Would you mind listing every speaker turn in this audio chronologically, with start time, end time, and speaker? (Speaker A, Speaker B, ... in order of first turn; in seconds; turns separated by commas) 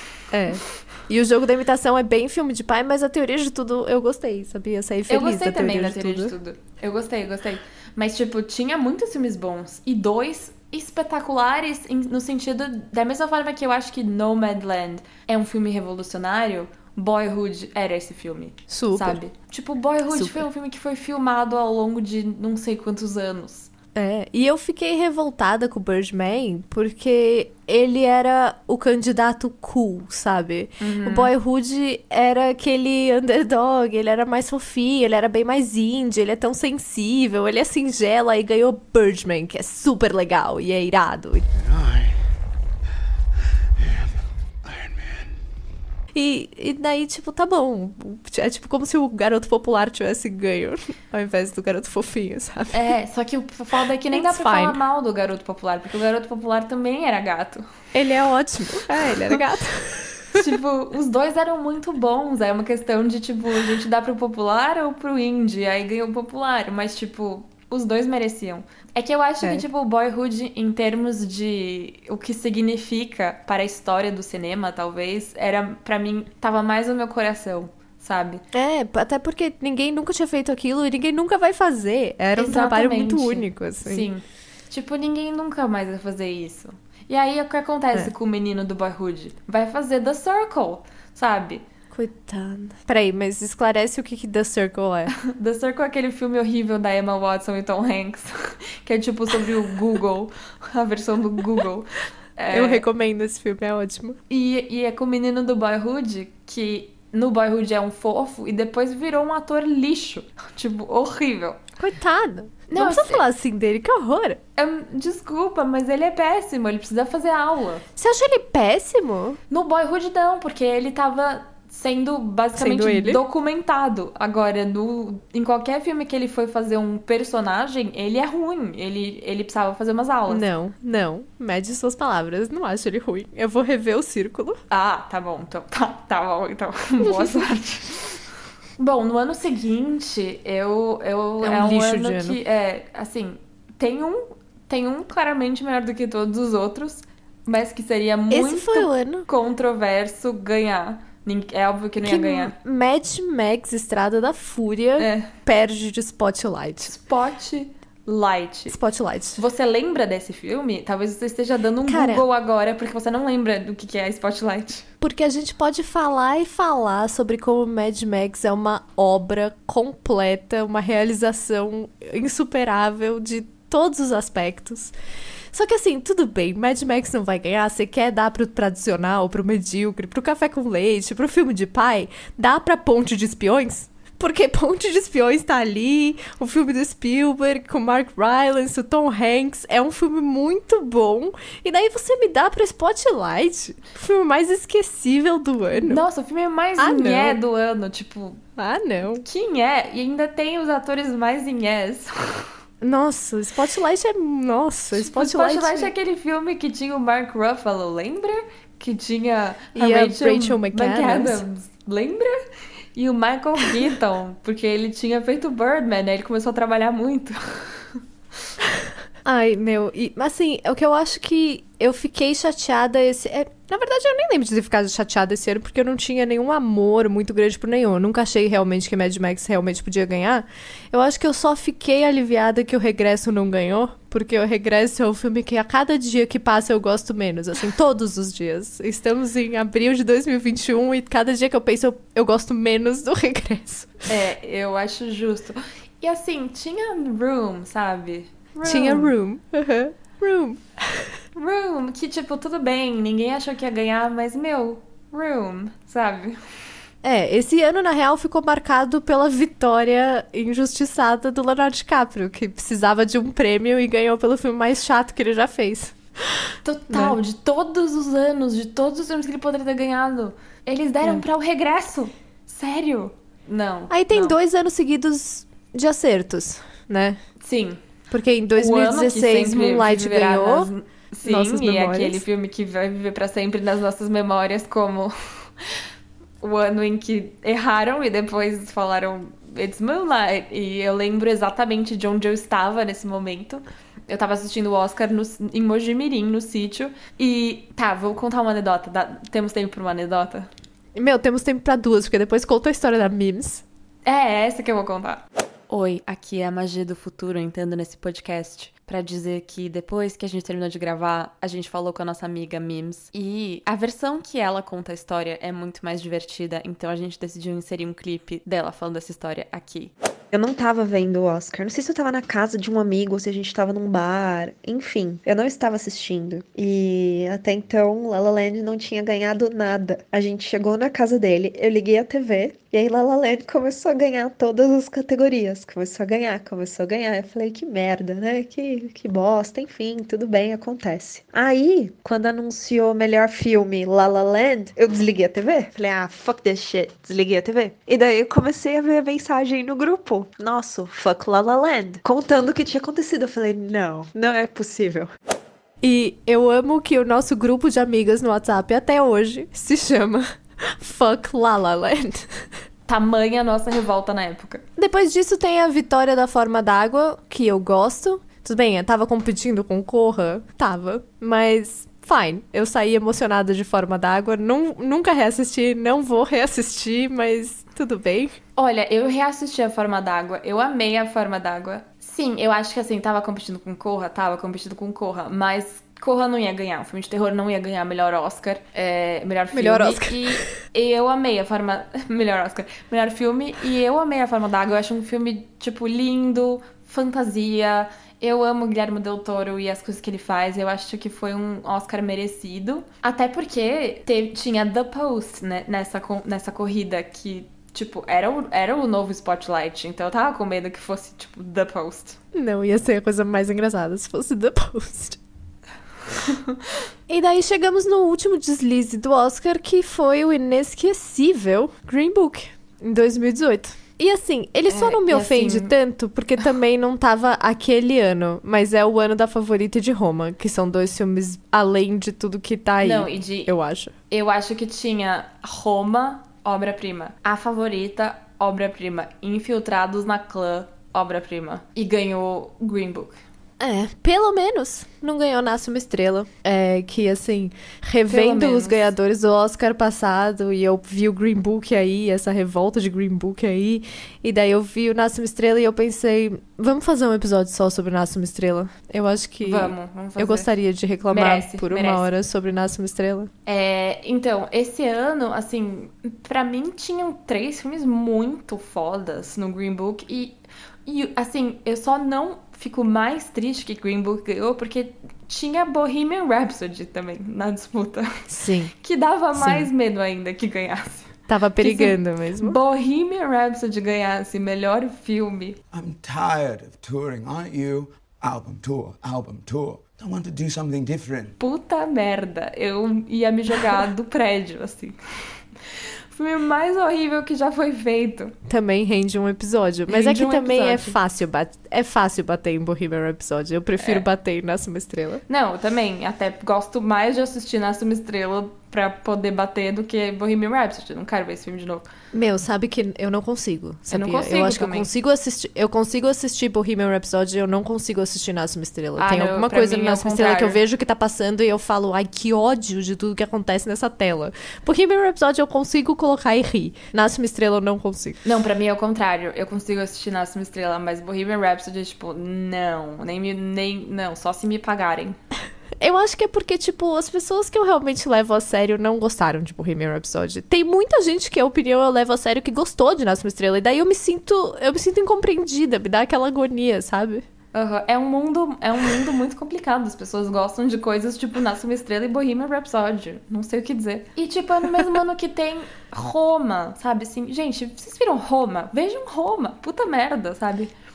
Speaker A: 0.3-6.3, Speaker B: 5.1-23.7, Speaker A: 18.7-19.2, Speaker A: 20.1-20.4, Speaker A: 23.9-41.5, Speaker B: 30.8-31.3, Speaker A: 46.1-52.9, Speaker B: 52.7-57.6, Speaker A: 54.1-54.8, Speaker A: 57.9-60.4, Speaker B: 60.3-78.4, Speaker A: 78.5-84.0, Speaker B: 82.3-91.6, Speaker A: 91.9-95.1, Speaker B: 95.2-102.8, Speaker A: 102.5-104.2, Speaker B: 104.3-111.6, Speaker A: 111.8-114.4, Speaker B: 112.7-113.2, Speaker B: 114.5-117.8, Speaker A: 118.0-119.4, Speaker B: 119.5-130.4, Speaker A: 122.5-123.2, Speaker A: 130.3-134.6, Speaker B: 134.7-138.2, Speaker A: 137.0-137.5, Speaker B: 138.8-152.5, Speaker A: 141.4-142.4, Speaker A: 148.3-149.2, Speaker A: 152.0-156.9, Speaker B: 155.0-155.3, Speaker B: 156.9-158.8, Speaker A: 158.7-159.4, Speaker B: 159.4-164.9, Speaker A: 161.9-162.2, Speaker A: 165.0-174.9, Speaker A: 175.5-196.0, Speaker B: 195.8-198.4, Speaker A: 196.8-197.4, Speaker A: 198.6-199.2, Speaker B: 199.2-202.5, Speaker A: 202.8-205.9, Speaker B: 204.9-212.4, Speaker A: 209.7-211.4, Speaker B: 212.9-218.0, Speaker A: 219.2-244.0, Speaker B: 244.1-249.1, Speaker A: 248.6-251.0, Speaker B: 251.3-256.4, Speaker A: 257.0-265.9, Speaker B: 266.6-274.4, Speaker A: 266.9-267.1, Speaker A: 273.9-277.2, Speaker B: 277.4-277.8, Speaker A: 278.1-280.7, Speaker B: 278.6-285.8, Speaker A: 281.2-282.2, Speaker B: 286.4-300.5, Speaker A: 300.9-303.6, Speaker B: 304.0-319.9, Speaker C: 320.3-355.1, Speaker A: 355.8-362.4, Speaker B: 362.9-364.6, Speaker A: 364.8-378.4, Speaker B: 378.6-412.2, Speaker A: 389.5-390.4, Speaker A: 412.3-415.2, Speaker B: 416.2-416.6, Speaker A: 417.1-433.9, Speaker B: 424.7-425.7, Speaker B: 432.8-433.5, Speaker B: 434.1-443.2, Speaker A: 443.6-463.3, Speaker B: 448.1-448.9, Speaker B: 459.4-460.5, Speaker B: 461.1-462.1, Speaker B: 463.4-485.6, Speaker A: 478.3-478.7, Speaker A: 479.4-479.7, Speaker A: 481.3-482.6, Speaker D: 485.7-491.4, Speaker B: 491.4-498.3, Speaker A: 498.5-505.2, Speaker B: 499.9-501.0, Speaker B: 503.8-504.0, Speaker B: 505.3-511.9, Speaker A: 512.1-528.2, Speaker B: 513.9-514.9, Speaker B: 519.0-520.6, Speaker B: 528.2-535.2, Speaker A: 535.8-547.2, Speaker B: 547.5-560.7